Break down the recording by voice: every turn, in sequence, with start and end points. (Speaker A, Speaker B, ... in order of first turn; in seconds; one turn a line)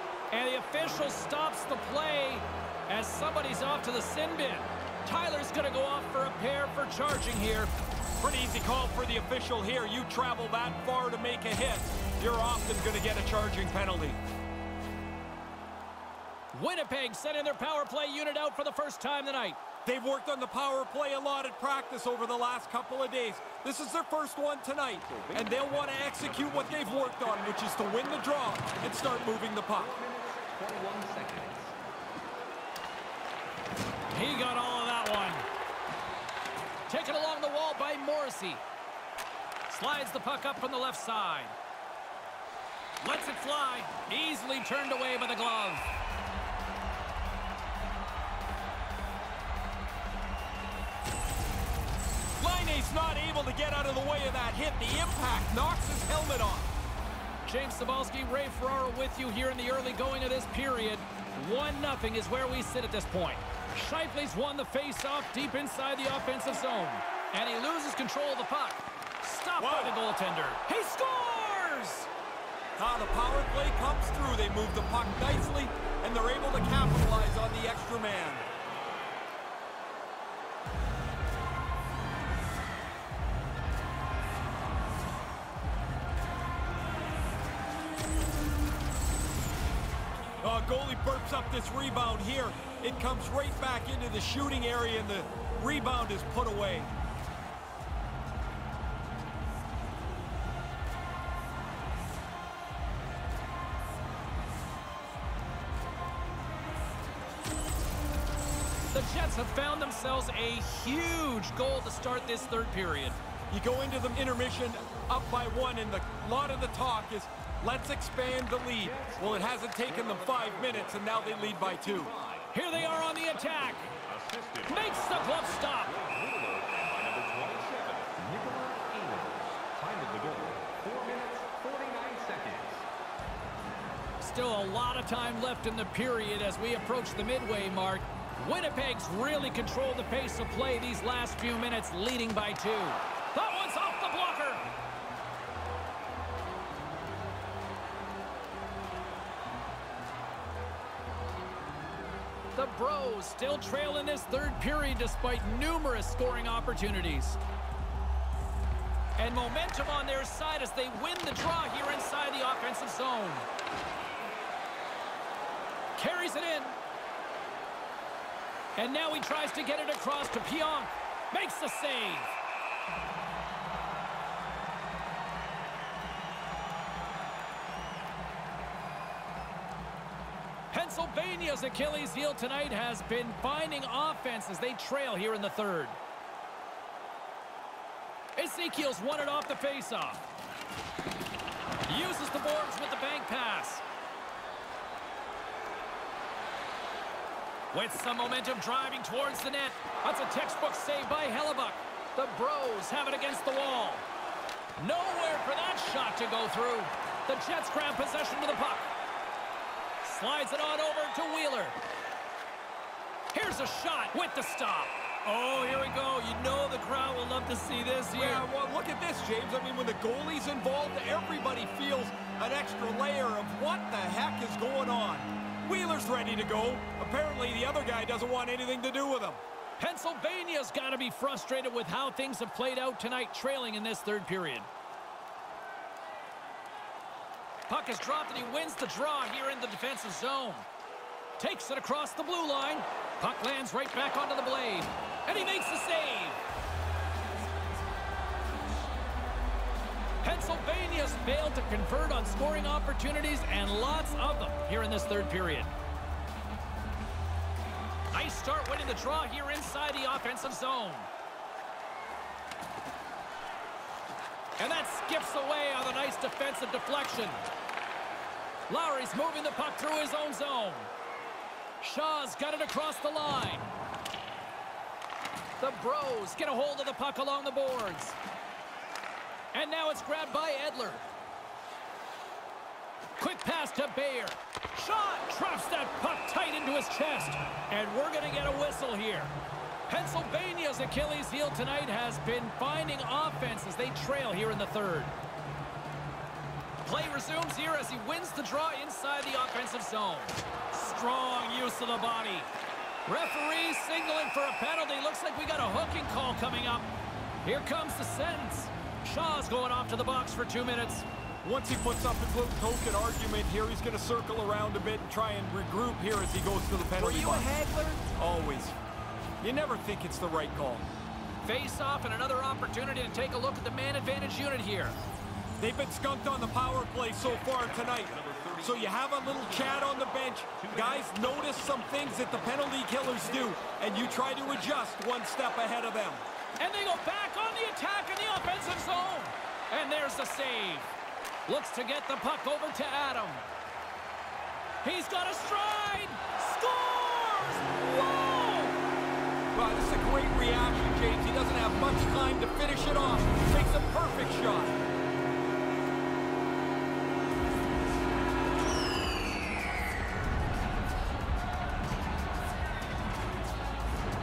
Speaker A: 0.3-7.7
Speaker B: 8.2-14.2
Speaker A: 16.5-19.6
Speaker B: 19.9-29.9
Speaker C: 25.1-28.9
Speaker C: 29.7-31.8
Speaker A: 34.1-35.5
Speaker A: 36.9-38.6
Speaker A: 39.7-41.6
Speaker A: 43.0-45.9
Speaker B: 52.4-56.7
Speaker A: 57.5-72.1
Speaker B: 69.6-70.0
Speaker B: 72.8-78.4
Speaker B: 90.4-96.9
Speaker A: 108.9-113.2
Speaker B: 113.5-122.1
Speaker C: 118.8-132.8
Speaker A: 122.5-123.8
Speaker A: 124.7-125.9
Speaker A: 134.2-144.6
Speaker A: 152.6-157.4
Speaker A: 159.2-163.5
Speaker A: 166.0-166.8
Speaker A: 168.8-172.3
Speaker A: 180.7-186.0
Speaker A: 188.4-190.2
Speaker A: 191.9-193.8
Speaker A: 197.7-204.1
Speaker A: 204.8-208.9
Speaker A: 210.0-211.8
Speaker A: 213.3-218.4
Speaker B: 218.2-229.4
Speaker A: 229.8-234.7
Speaker A: 237.7-240.7
Speaker A: 241.4-246.4
Speaker A: 250.2-255.7
Speaker A: 258.1-261.1
Speaker A: 264.6-267.4
Speaker A: 268.7-270.9
Speaker A: 271.8-273.7
Speaker A: 275.6-278.2
Speaker A: 279.5-281.0
Speaker A: 283.2-289.3
Speaker A: 289.9-295.1
Speaker A: 296.8-302.5
Speaker A: 303.1-306.9
Speaker A: 307.4-311.1
Speaker B: 311.4-317.5
Speaker A: 317.0-318.1
Speaker B: 318.1-318.7
Speaker B: 319.4-320.9
Speaker A: 321.4-324.9
Speaker B: 325.6-336.2
Speaker C: 327.4-334.9
Speaker A: 336.6-340.9
Speaker A: 341.5-343.4
Speaker A: 344.8-348.8
Speaker B: 349.5-354.8